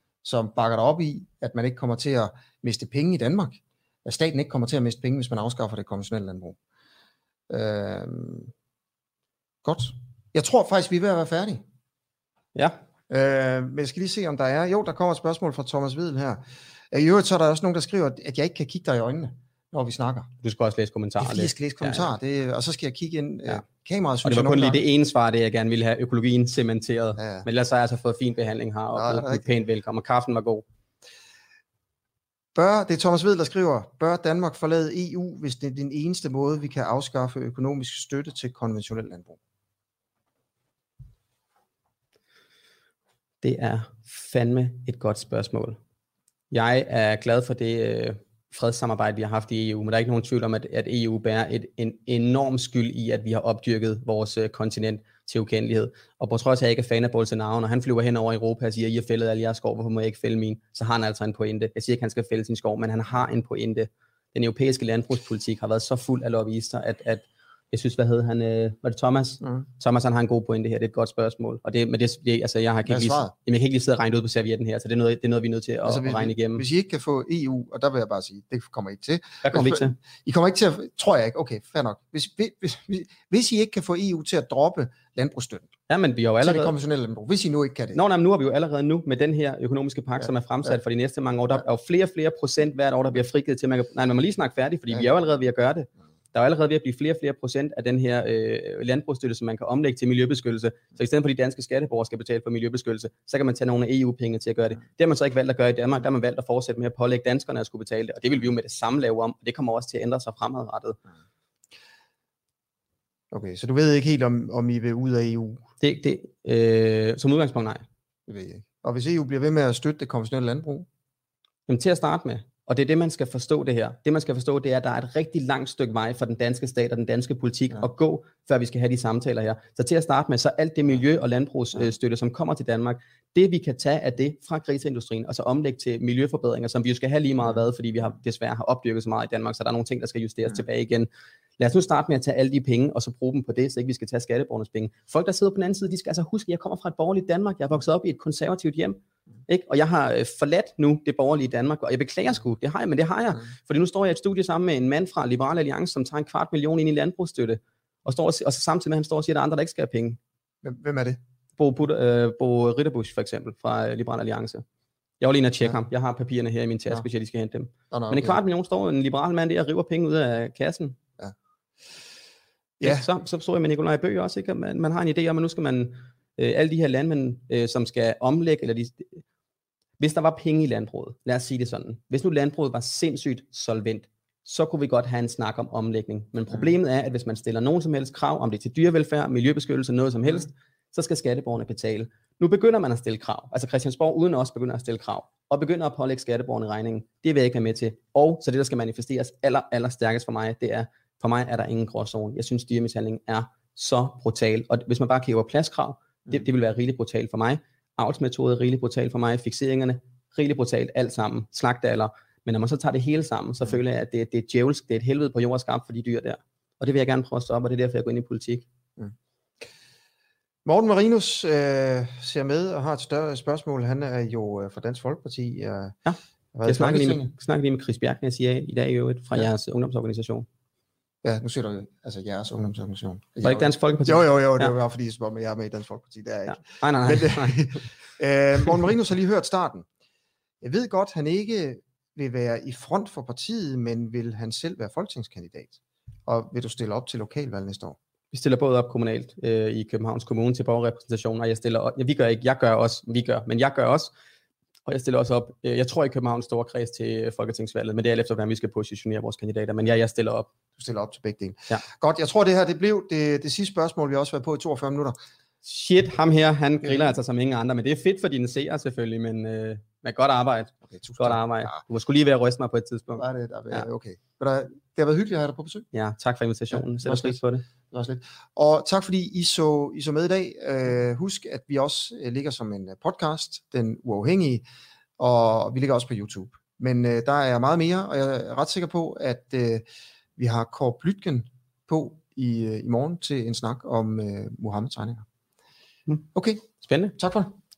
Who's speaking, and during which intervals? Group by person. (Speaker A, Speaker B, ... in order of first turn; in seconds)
Speaker A: 0.2-6.6, 7.5-8.5, 9.6-11.6, 13.1-20.3, 21.2-24.8, 27.2-27.5, 28.9-29.5, 32.5-39.4, 72.8-73.3, 75.8-85.7, 86.4-88.0, 113.3-115.6, 118.3-120.9, 160.6-161.2, 167.9-168.4, 172.8-173.1, 220.6-225.9, 226.5-227.3, 231.2-239.8, 240.6-248.0, 260.8-265.1, 266.8-267.1, 270.9-271.8, 273.2-275.9, 276.7-284.6, 285.2-289.9, 290.4-295.2, 296.3-297.5
Speaker B: 20.4-22.1, 24.2-30.6, 43.4-45.8, 46.5-76.6, 79.4-80.0, 85.9-86.7, 87.9-111.0, 115.8-117.8, 121.7-141.1, 141.6-160.2, 161.6-164.6, 165.2-171.0, 172.8-179.2, 180.0-218.7, 226.1-230.4, 233.4-234.7, 236.5-237.7, 248.3-254.1, 254.8-260.5, 265.6-273.9, 275.9-277.6, 296.8-297.1